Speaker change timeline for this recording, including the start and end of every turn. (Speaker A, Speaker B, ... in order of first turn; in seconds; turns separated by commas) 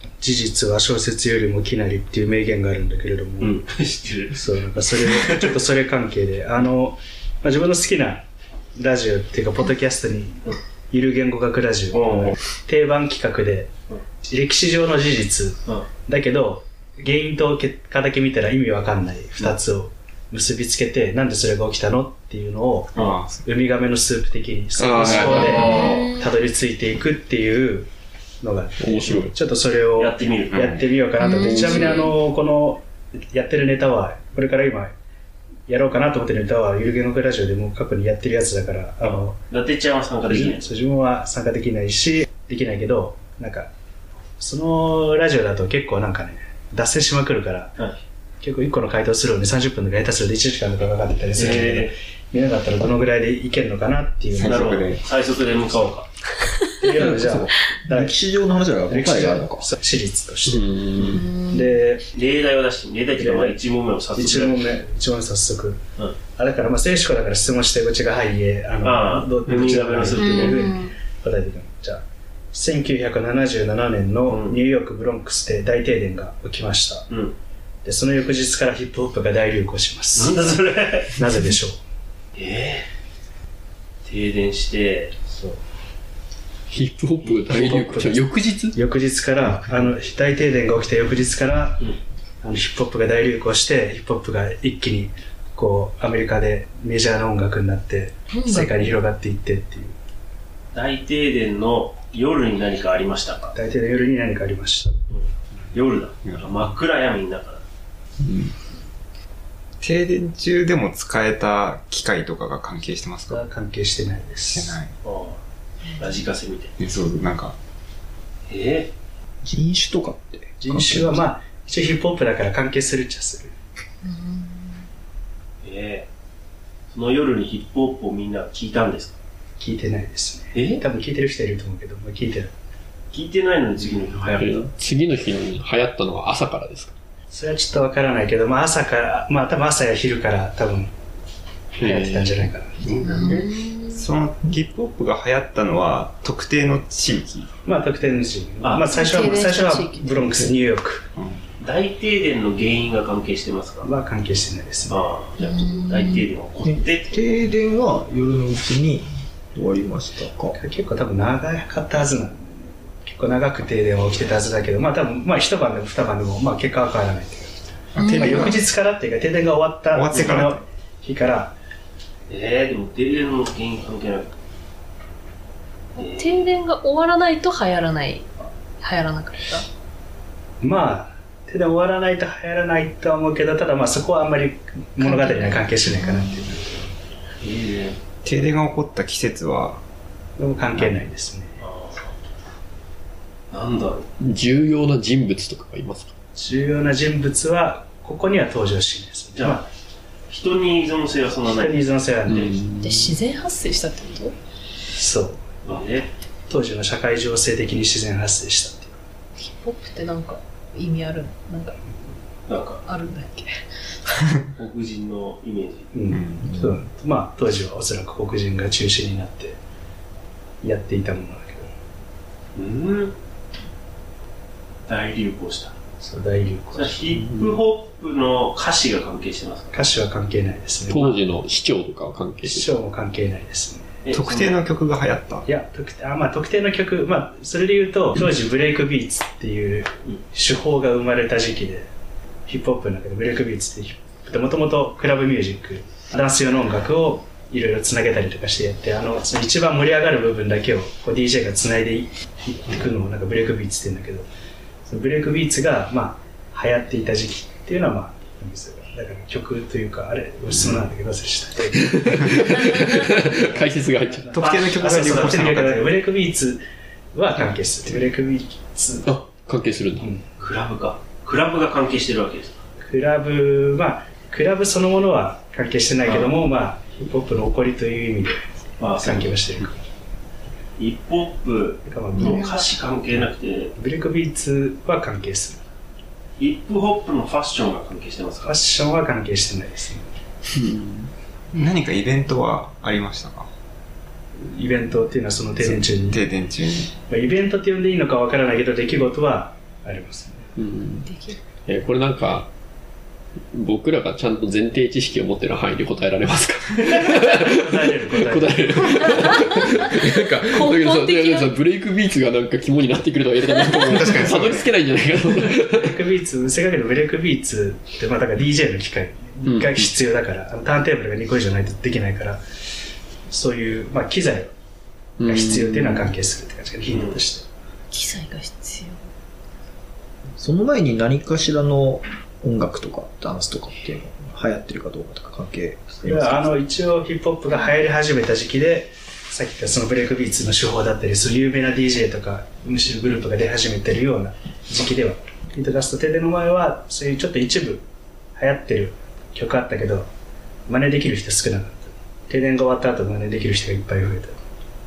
Speaker A: 0.2-3.6, Speaker B: 3.4-4.4, Speaker A: 4.3-13.7, Speaker B: 5.0-5.4, Speaker B: 11.9-12.3, Speaker A: 14.2-22.9, Speaker C: 23.0-23.5, Speaker A: 23.4-27.9, Speaker D: 24.8-26.0, Speaker B: 25.0-26.1, Speaker E: 25.7-26.2, Speaker A: 28.4-34.9, Speaker D: 28.8-29.3, Speaker B: 30.0-30.6, Speaker C: 30.5-30.8, Speaker E: 31.2-31.6, Speaker D: 31.3-32.1, Speaker A: 35.7-39.4, Speaker B: 39.0-40.6, Speaker A: 40.3-43.7, Speaker A: 44.4-47.8, Speaker A: 48.4-54.8, Speaker B: 51.4-51.9, Speaker C: 54.3-55.0, Speaker B: 54.4-56.1, Speaker A: 56.7-58.2, Speaker F: 56.8-59.8, Speaker A: 58.9-62.1, Speaker D: 60.5-61.3, Speaker E: 61.2-61.5, Speaker B: 62.1-64.6, Speaker A: 63.2-63.6, Speaker A: 64.1-65.8, Speaker A: 66.4-77.1, Speaker B: 68.8-70.7, Speaker E: 70.2-70.9, Speaker B: 74.3-74.6, Speaker B: 77.1-77.3, Speaker A: 77.8-80.5, Speaker B: 80.2-81.1, Speaker A: 81.1-81.8, Speaker B: 82.4-82.9, Speaker B: 84.0-85.1, Speaker A: 85.3-85.6, Speaker D: 86.7-88.8, Speaker A: 87.5-91.8, Speaker A: 92.4-100.0, Speaker E: 98.3-98.8, Speaker B: 100.7-103.5, Speaker A: 103.5-105.1, Speaker B: 105.1-107.6, Speaker C: 106.2-106.7, Speaker C: 108.2-108.5, Speaker C: 109.8-113.4, Speaker A: 113.3-114.8, Speaker C: 114.5-114.9, Speaker B: 115.0-115.4, Speaker B: 116.0-116.7, Speaker C: 116.8-117.6, Speaker B: 118.5-118.9, Speaker F: 119.4-121.3, Speaker A: 120.6-123.5, Speaker E: 124.0-124.8, Speaker B: 125.6-126.1, Speaker B: 126.9-129.2, Speaker A: 129.6-132.5, Speaker B: 130.5-130.8, Speaker B: 133.1-134.7, Speaker D: 134.4-136.9, Speaker A: 137.3-140.9, Speaker D: 141.8-142.5, Speaker A: 141.8-142.9, Speaker E: 143.0-144.0, Speaker C: 143.1-147.5, Speaker A: 147.7-151.1, Speaker B: 148.6-148.9, Speaker E: 148.9-150.5, Speaker C: 151.2-151.4, Speaker B: 151.6-153.9, Speaker A: 153.8-155.1, Speaker B: 154.9-157.1, Speaker E: 155.4-156.3, Speaker F: 156.7-160.6, Speaker A: 160.6-167.6, Speaker C: 167.9-168.6, Speaker E: 168.0-168.4, Speaker A: 168.1-171.6, Speaker C: 169.9-170.6, Speaker B: 172.3-174.3, Speaker E: 175.9-178.3, Speaker B: 176.0-176.5, Speaker E: 178.8-179.7, Speaker A: 180.6-186.8, Speaker E: 185.0-186.3, Speaker B: 187.4-188.0, Speaker C: 188.2-189.8, Speaker A: 190.4-191.6, Speaker B: 191.6-192.1, Speaker B: 193.5-194.1, Speaker D: 194.2-196.1, Speaker A: 196.3-199.7, Speaker B: 199.4-199.7, Speaker B: 200.3-201.8, Speaker A: 201.5-202.7, Speaker D: 202.3-203.2, Speaker E: 202.8-204.3, Speaker A: 204.9-205.5, Speaker B: 205.7-206.1, Speaker A: 206.5-209.0, Speaker E: 209.4-211.8, Speaker B: 212.5-212.8, Speaker E: 212.8-213.5, Speaker B: 214.6-215.9, Speaker A: 215.9-219.6, Speaker C: 216.1-216.4, Speaker F: 216.4-216.8, Speaker A: 220.6-221.7, Speaker B: 222.6-223.2, Speaker B: 224.9-225.7, Speaker A: 226.0-227.2, Speaker B: 226.8-229.9, Speaker A: 229.7-231.2, Speaker D: 230.9-232.7, Speaker A: 232.5-233.9, Speaker B: 234.0-234.6, Speaker C: 234.1-235.5, Speaker A: 235.5-241.9, Speaker A: 242.5-254.3, Speaker A: 254.8-262.7, Speaker D: 261.8-264.3, Speaker A: 263.3-263.7, Speaker A: 264.2-266.6, Speaker C: 264.3-266.0, Speaker B: 264.4-265.3, Speaker A: 267.1-269.1, Speaker D: 269.1-270.1, Speaker A: 270.0-270.2, Speaker B: 270.4-272.6, Speaker A: 272.8-279.8, Speaker B: 276.0-276.4, Speaker B: 278.8-279.4, Speaker B: 280.8-283.7, Speaker A: 281.9-282.6, Speaker A: 283.8-285.6, Speaker B: 286.4-288.6, Speaker A: 288.4-290.1, Speaker D: 290.6-291.1, Speaker C: 291.5-293.5, Speaker A: 294.5-296.2, Speaker C: 295.6-296.9, Speaker A: 296.9-300.4, Speaker D: 300.6-301.1, Speaker E: 301.1-301.4, Speaker D: 301.7-302.5, Speaker D: 303.5-315.9, Speaker A: 307.1-309.0, Speaker E: 310.5-311.5, Speaker C: 313.8-314.7, Speaker A: 315.8-322.4, Speaker D: 319.5-319.8, Speaker A: 323.3-324.5, Speaker D: 325.2-326.1, Speaker A: 325.2-327.5, Speaker B: 326.9-327.2, Speaker E: 327.9-329.0, Speaker F: 330.4-336.6, Speaker A: 336.0-347.9, Speaker A: 348.4-350.1, Speaker A: 350.7-354.4